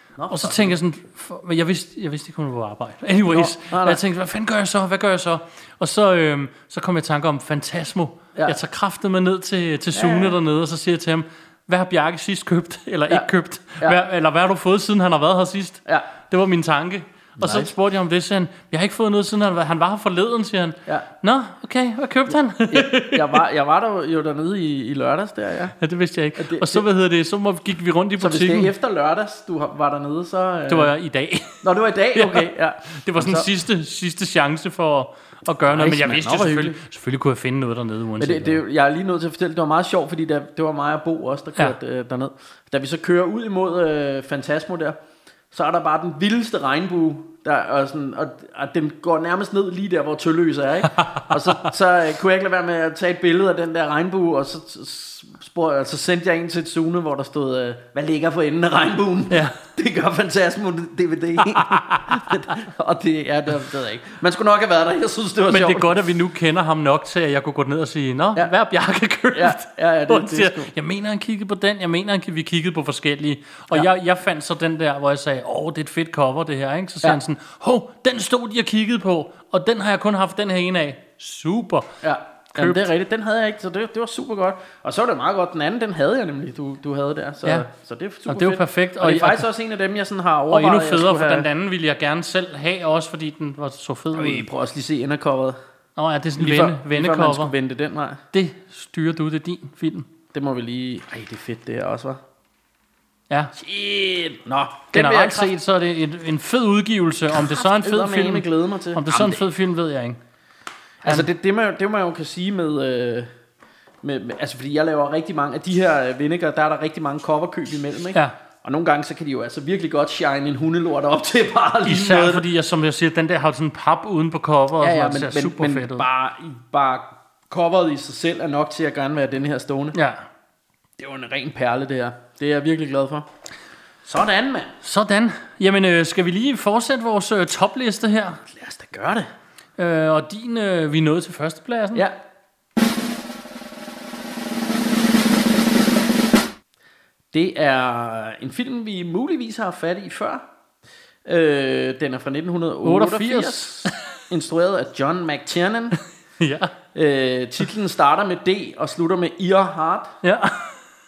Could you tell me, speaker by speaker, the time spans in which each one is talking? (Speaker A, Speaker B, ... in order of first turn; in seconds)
Speaker A: 0.2-0.8, 3.3-4.0, 9.9-10.4, 17.4-17.7, 22.7-25.7, 26.4-26.9, 28.2-30.9, 31.6-33.5, 35.7-36.8, 38.2-45.0, 45.5-66.0, 69.3-70.7, 82.0-91.5, 94.2-95.6, 96.4-98.2, 100.3-102.2, 103.5-105.5, 107.4-109.4, 111.0-113.3, 114.0-122.5, 124.8-130.0, 131.0-133.3, 134.1-134.7, 138.5-139.3, 147.3-150.4, 151.3-156.0, 156.9-160.2
Speaker B: 0.3-23.4, 25.8-28.7, 30.7-31.6, 32.1-38.6, 59.3-59.6, 61.5-62.2, 65.5-81.9, 82.6-82.9, 88.3-89.5, 90.5-94.5, 96.0-97.5, 98.3-100.1, 104.9-110.2, 121.8-126.1, 129.9-130.2, 134.8-138.4, 139.8-142.1, 152.8-154.0, 156.4-156.7, 160.2-160.8